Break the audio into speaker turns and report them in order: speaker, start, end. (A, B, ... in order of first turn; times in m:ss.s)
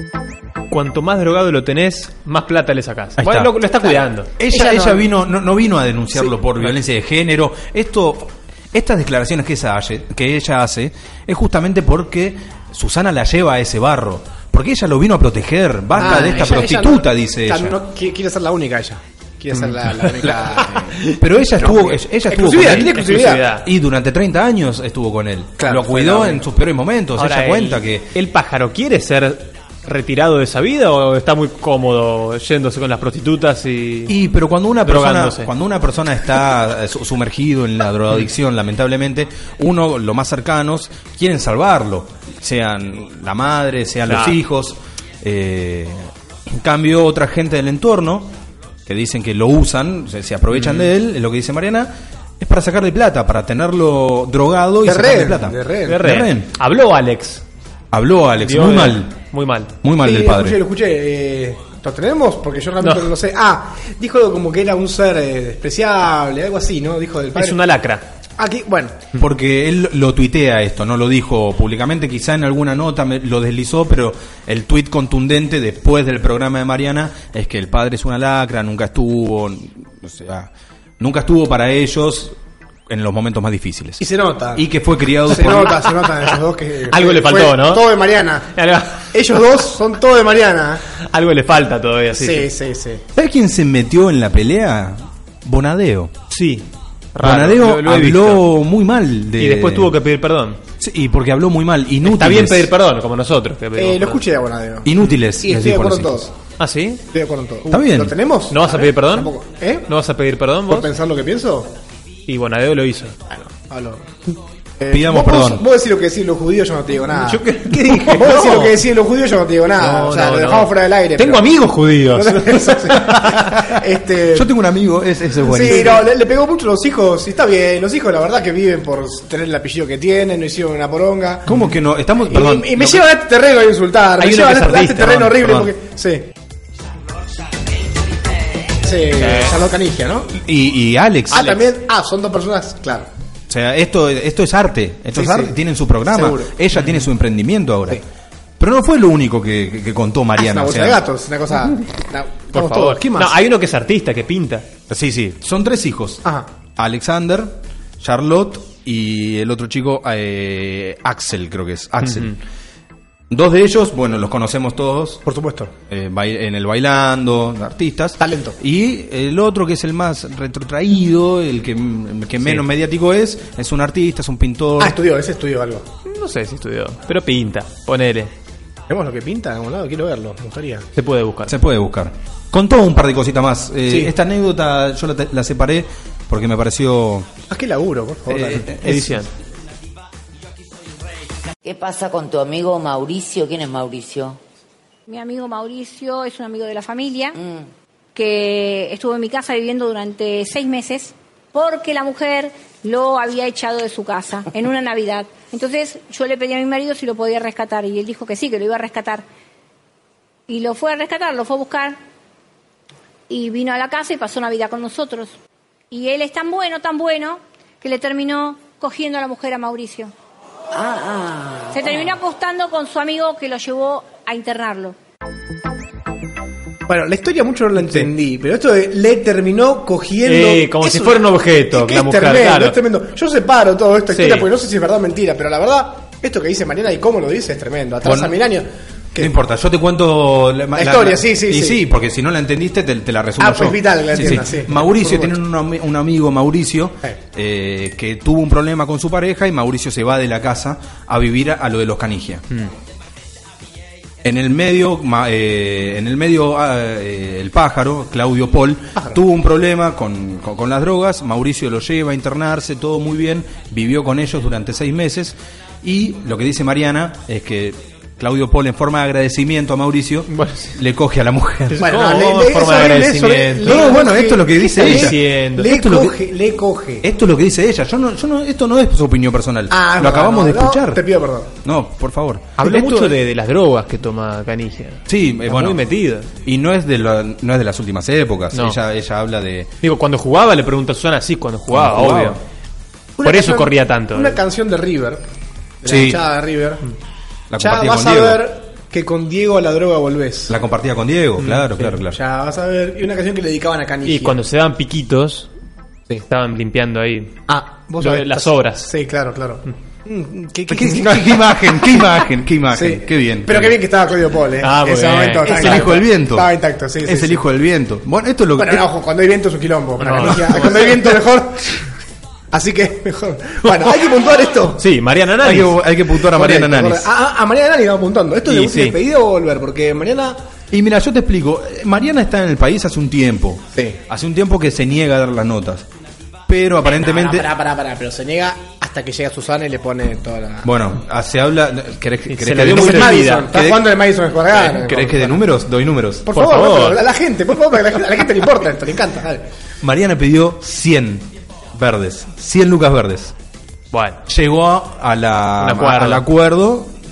0:00.7-0:04.9 A
0:03.2-0:03.5 B
0:04.4-0:17.8 B
0:15.9-0:23.4 C
0:20.2-0:23.0 B
0:22.5-0:23.7 A
0:23.6-0:28.1 B
0:25.6-0:26.4 C
0:27.2-0:34.1 A
0:34.1-0:48.3 B
0:34.8-0:35.5 A
0:44.0-0:44.4 A
0:48.9-0:56.5 B
0:50.5-0:50.9 A
0:54.8-0:56.0 C
0:55.8-0:57.4 A
0:57.9-0:59.1 B
0:58.4-0:59.7 A
0:59.8-1:00.6 B
1:00.0-1:07.6 C
1:02.8-1:03.1 A
1:07.3-1:08.0 A
1:08.4-1:09.1 C
1:09.2-1:22.4 B
1:22.9-1:25.9 B
1:24.0-1:24.6 C
1:25.2-1:28.5 C
1:26.9-1:27.9 A
1:28.5-1:29.1 A
1:29.0-1:30.8 C
1:31.0-1:32.5 A
1:32.2-1:33.0 C
1:33.1-1:36.1 B
1:36.3-1:38.5 A
1:37.2-1:39.9 B
1:39.4-1:40.6 A
1:40.8-1:42.7 B
1:42.0-1:44.2 A
1:43.8-1:46.3 C
1:44.8-1:46.3 B
1:46.6-1:47.0 A
1:47.1-1:49.8 C
1:47.7-1:48.2 B
1:48.5-1:49.3 A
1:49.8-1:50.9 A
1:50.7-1:51.7 C
1:52.3-1:53.2 A
1:53.3-1:54.2 C
1:54.8-1:57.4 C
1:54.9-1:55.6 B
1:57.1-1:58.8 A
1:57.9-2:01.5 C
1:59.8-2:03.4 A
2:02.1-2:04.5 C
2:04.3-2:06.0 B
2:05.4-2:11.6 C
2:05.7-2:06.0 A
2:11.5-2:13.1 B
2:12.3-2:16.3 C
2:14.2-2:15.7 A
2:18.8-2:20.3 C
2:19.2-2:19.6 A
2:20.3-2:21.6 B
2:21.3-2:23.1 C
2:23.5-2:28.0 B
2:25.1-2:25.5 C
2:26.1-2:26.5 C
2:26.8-2:27.0 A
2:28.6-2:31.0 B
2:30.4-2:33.3 C
2:32.5-2:34.7 A
2:34.9-2:36.2 B
2:36.8-2:42.4 B
2:42.0-2:42.3 A
2:43.3-2:45.2 B
2:45.2-2:45.7 C
2:45.9-2:55.0 B
2:48.2-2:48.6 C
2:54.8-2:55.9 C
2:56.0-2:58.3 A
2:58.9-3:00.9 C
3:01.0-3:01.5 A
3:01.5-3:07.3 B
3:03.9-3:04.1 C
3:07.5-3:08.7 C
3:08.3-3:09.3 B
3:08.8-3:09.3 A
3:11.6-3:14.4 D
3:15.1-3:17.4 E
3:17.4-3:17.7 D
3:18.1-3:29.2 E
3:30.5-3:32.0 E
3:33.3-3:35.3 E
3:35.9-3:40.1 E
3:40.7-3:42.1 D
3:41.7-3:45.0 E
3:46.9-3:59.3 C
3:47.8-3:48.1 A
3:50.2-3:52.8 A
3:54.1-3:54.5 A
3:58.0-3:58.4 B
3:59.2-4:12.4 B
4:00.7-4:01.8 C
4:03.4-4:05.3 C
4:14.2-4:31.9 B
4:30.3-4:30.8 A
4:31.7-4:34.0 A
4:31.8-4:37.0 C
4:33.6-4:36.2 B
4:34.8-4:35.7 A
4:37.0-4:41.0 B
4:39.7-4:41.5 C
4:41.6-4:43.2 B
4:42.6-4:46.3 A
4:45.1-4:45.8 B
4:46.4-4:49.7 B
4:48.5-4:48.8 A
4:49.8-4:52.4 A
4:51.7-4:52.4 B
4:53.2-4:55.2 C
4:53.2-4:54.4 A
4:55.8-4:56.8 C
4:55.8-4:56.2 B
4:57.5-4:58.4 B
4:57.6-5:00.5 C
5:00.5-5:02.2 B
5:01.4-5:01.9 A
5:02.0-5:04.4 C
5:04.0-5:05.5 A
5:06.2-5:07.4 A
5:07.5-5:12.1 C
5:08.0-5:08.9 A
5:10.7-5:13.8 B
5:12.7-5:17.4 C
5:14.6-5:15.9 A
5:15.4-5:18.9 B
5:18.6-5:21.8 C
5:20.0-5:21.0 A
5:20.2-5:21.2 B
5:22.5-5:24.8 C
5:24.7-5:25.8 A
5:25.4-5:27.1 B
5:26.2-5:30.4 C
5:28.5-5:29.0 A
5:30.7-5:35.8 B
5:33.7-5:34.0 C
5:36.5-5:37.5 B
5:36.9-5:40.7 C
5:40.6-5:43.9 B
5:42.3-5:43.5 A
5:42.6-5:45.4 C
5:44.5-5:46.3 B
5:46.2-5:49.5 C
5:46.3-5:47.0 A
5:49.8-5:53.3 B
5:53.9-5:54.2 A
5:54.3-5:56.9 B
5:55.6-5:56.2 A